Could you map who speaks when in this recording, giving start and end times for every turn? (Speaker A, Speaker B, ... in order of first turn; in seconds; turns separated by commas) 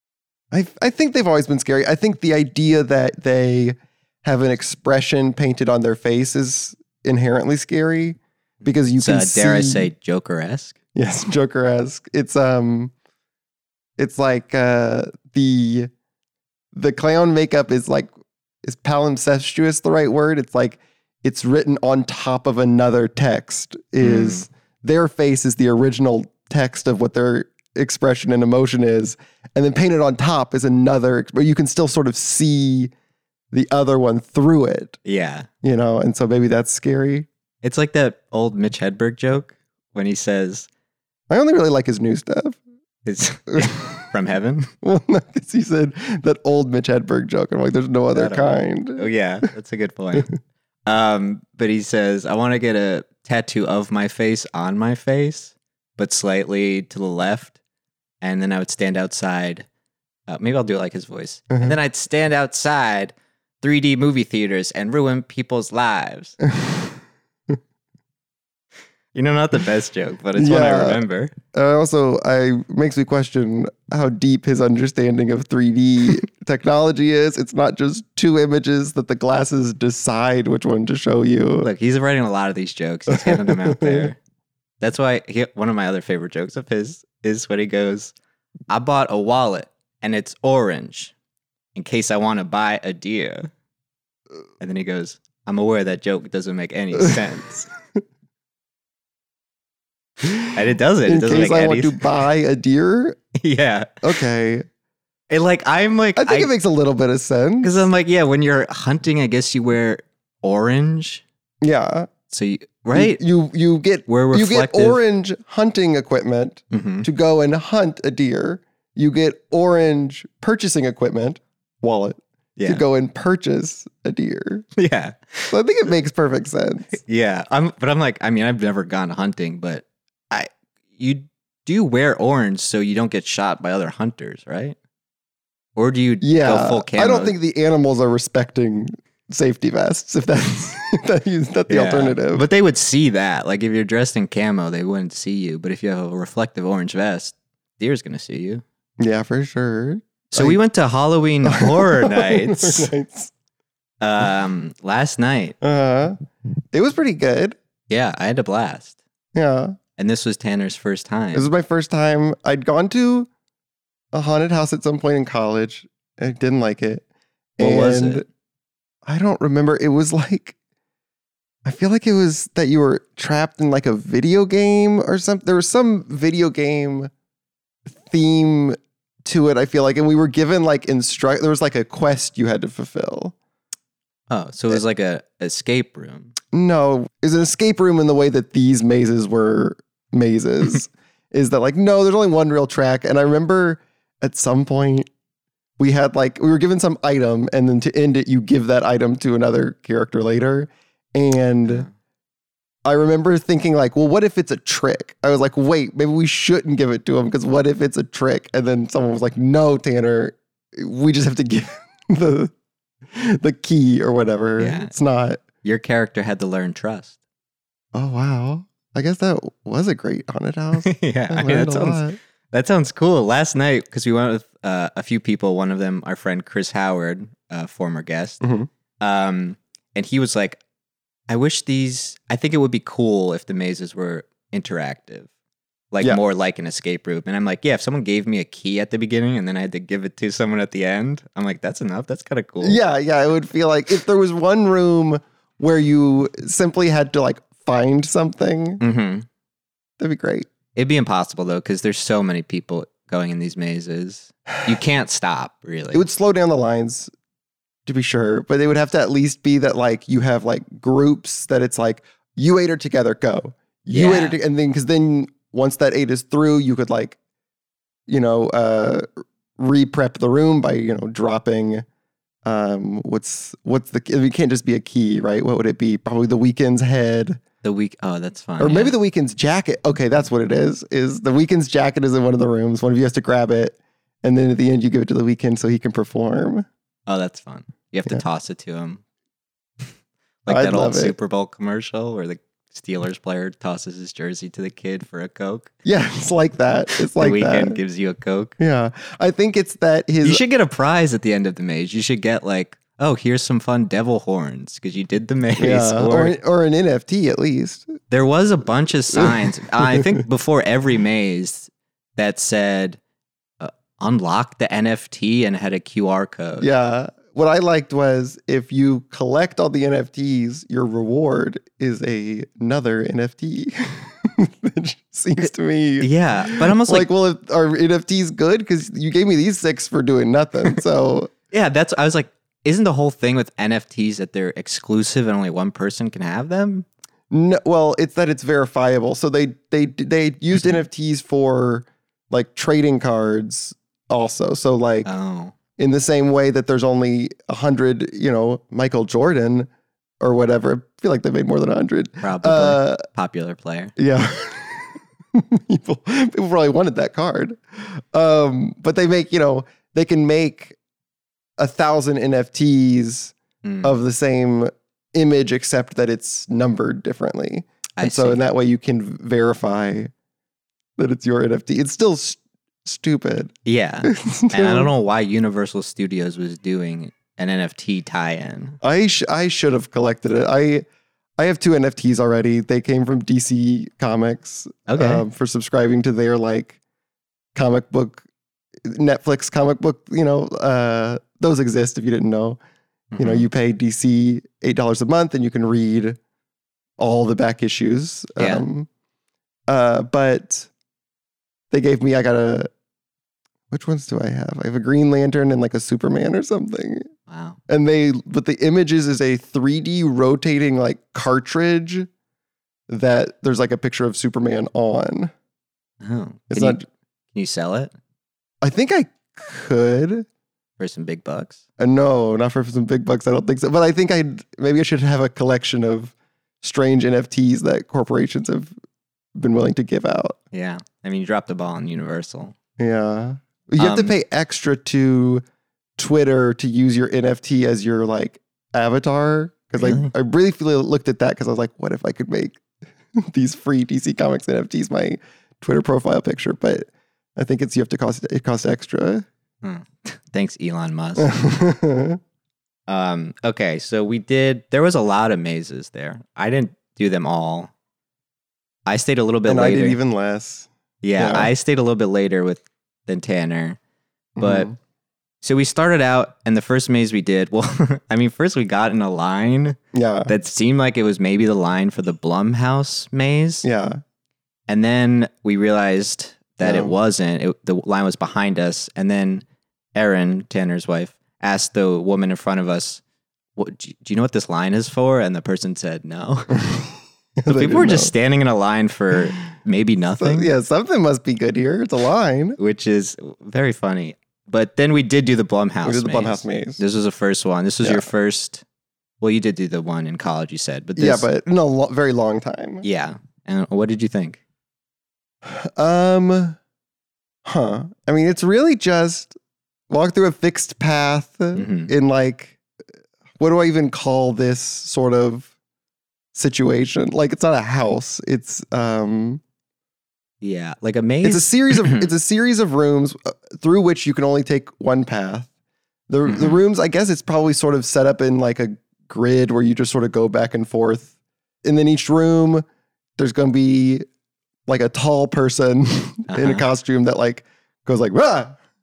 Speaker A: 0.5-9.9, Speaker B: 9.0-10.8, Speaker A: 10.9-12.9, Speaker A: 14.0-15.9, Speaker A: 16.7-18.1, Speaker A: 18.6-32.9, Speaker B: 24.0-24.5, Speaker A: 33.5-35.0, Speaker B: 35.0-35.5, Speaker A: 35.6-37.3, Speaker B: 37.6-40.7, Speaker A: 41.3-42.6, Speaker B: 43.0-44.7, Speaker A: 43.5-44.0, Speaker A: 44.8-49.1, Speaker B: 48.1-50.3, Speaker B: 50.9-57.5, Speaker B: 58.2-59.7, Speaker B: 60.3-66.4, Speaker A: 61.5-61.8, Speaker A: 66.5-67.0, Speaker B: 69.1-71.3, Speaker A: 70.4-71.0, Speaker A: 71.5-81.7, Speaker B: 81.6-84.2, Speaker A: 83.1-84.1, Speaker B: 84.8-88.1, Speaker B: 88.7-91.1, Speaker B: 91.8-93.5, Speaker B: 94.6-97.7, Speaker B: 100.5-102.0, Speaker A: 101.1-103.2, Speaker B: 103.4-104.2, Speaker A: 104.0-104.7, Speaker B: 105.3-106.5, Speaker A: 106.2-107.9, Speaker B: 107.6-111.2, Speaker A: 111.6-112.1, Speaker B: 112.3-113.2, Speaker A: 112.9-124.7, Speaker B: 114.1-115.0, Speaker B: 116.7-117.1, Speaker B: 122.6-122.8, Speaker B: 124.8-125.6, Speaker A: 125.5-127.0, Speaker B: 126.9-134.8, Speaker B: 135.8-137.3, Speaker A: 136.2-142.5, Speaker B: 141.7-148.6, Speaker A: 149.0-150.6, Speaker B: 150.3-152.9, Speaker A: 151.4-153.3, Speaker B: 154.0-155.6, Speaker A: 155.6-156.2, Speaker A: 156.7-157.6, Speaker B: 157.9-158.9, Speaker A: 159.3-159.8, Speaker B: 160.0-161.5, Speaker A: 161.3-163.3, Speaker A: 164.1-167.0, Speaker A: 167.6-168.3, Speaker B: 167.6-168.2, Speaker A: 169.1-170.6, Speaker A: 171.7-177.1, Speaker A: 177.9-183.3, Speaker B: 184.3-186.3, Speaker A: 186.5-195.1, Speaker A: 195.8-201.9, Speaker A: 202.8-212.5, Speaker A: 213.1-215.4, Speaker B: 214.6-214.9, Speaker B: 215.6-217.2, Speaker A: 217.9-222.2, Speaker B: 220.8-228.4, Speaker A: 228.4-228.7, Speaker B: 229.0-230.6, Speaker B: 231.3-235.3, Speaker B: 235.9-242.8, Speaker A: 242.6-248.8, Speaker B: 248.8-249.3, Speaker A: 250.0-250.5, Speaker B: 250.8-256.1, Speaker A: 255.9-257.1, Speaker A: 257.9-267.2, Speaker B: 263.9-264.4, Speaker A: 268.1-269.1, Speaker A: 269.6-271.9, Speaker A: 272.4-277.4, Speaker B: 277.6-278.9, Speaker A: 278.6-286.7, Speaker B: 287.1-289.0, Speaker B: 290.5-295.7, Speaker A: 290.5-291.1, Speaker A: 295.9-297.8, Speaker B: 297.2-298.6, Speaker A: 298.6-300.4, Speaker B: 300.2-306.4, Speaker A: 305.6-307.9, Speaker B: 308.1-313.0, Speaker A: 309.2-310.2, Speaker B: 313.6-316.7, Speaker A: 316.6-331.3, Speaker B: 326.0-327.1, Speaker B: 331.5-336.9, Speaker A: 337.3-345.1, Speaker B: 345.1-345.6, Speaker A: 345.8-349.7, Speaker A: 350.2-353.0, Speaker B: 352.2-353.9, Speaker A: 354.0-360.8, Speaker A: 361.6-370.1, Speaker B: 363.6-364.0, Speaker B: 368.0-368.4, Speaker A: 371.0-373.5, Speaker B: 373.6-378.8, Speaker A: 374.1-374.9, Speaker A: 378.8-380.9, Speaker A: 381.4-386.8, Speaker B: 384.9-385.2, Speaker A: 387.6-388.2, Speaker A: 388.8-392.6, Speaker B: 393.1-393.5, Speaker A: 393.2-396.2, Speaker A: 397.0-398.9, Speaker B: 398.4-398.6, Speaker A: 399.7-400.7, Speaker A: 401.7-402.7, Speaker A: 403.7-407.1, Speaker B: 407.3-407.6, Speaker A: 407.7-412.1, Speaker A: 412.9-415.3, Speaker B: 416.0-416.8, Speaker A: 416.5-416.8, Speaker B: 417.3-417.9, Speaker A: 418.6-420.3, Speaker B: 420.8-421.6, Speaker A: 421.8-428.7, Speaker A: 429.4-430.4, Speaker B: 430.5-432.6, Speaker A: 432.8-435.4, Speaker B: 433.8-434.1, Speaker A: 436.0-442.6, Speaker B: 439.8-440.1, Speaker A: 443.2-449.3, Speaker B: 449.6-451.3, Speaker A: 451.2-452.2, Speaker B: 452.9-457.7, Speaker B: 458.9-460.0, Speaker A: 459.5-461.5, Speaker B: 461.0-463.8, Speaker A: 464.4-464.8, Speaker B: 464.4-464.7, Speaker B: 465.4-473.6, Speaker A: 469.9-470.3, Speaker A: 473.6-474.0, Speaker B: 474.7-483.0, Speaker A: 476.6-476.9, Speaker B: 483.6-486.6, Speaker A: 486.6-488.1, Speaker B: 487.5-490.5, Speaker A: 490.2-492.6, Speaker B: 492.6-498.6, Speaker A: 495.9-496.8, Speaker B: 499.2-501.3, Speaker A: 501.0-502.8, Speaker B: 502.8-504.4, Speaker A: 505.4-506.6, Speaker A: 507.4-509.4, Speaker A: 509.9-512.6, Speaker B: 511.6-511.9, Speaker A: 513.4-515.5, Speaker A: 516.3-519.4, Speaker B: 520.4-522.1, Speaker A: 521.2-525.5, Speaker A: 526.1-531.1, Speaker B: 526.3-526.6, Speaker A: 531.6-532.6, Speaker A: 533.2-534.0, Speaker A: 534.7-538.6, Speaker B: 536.3-536.6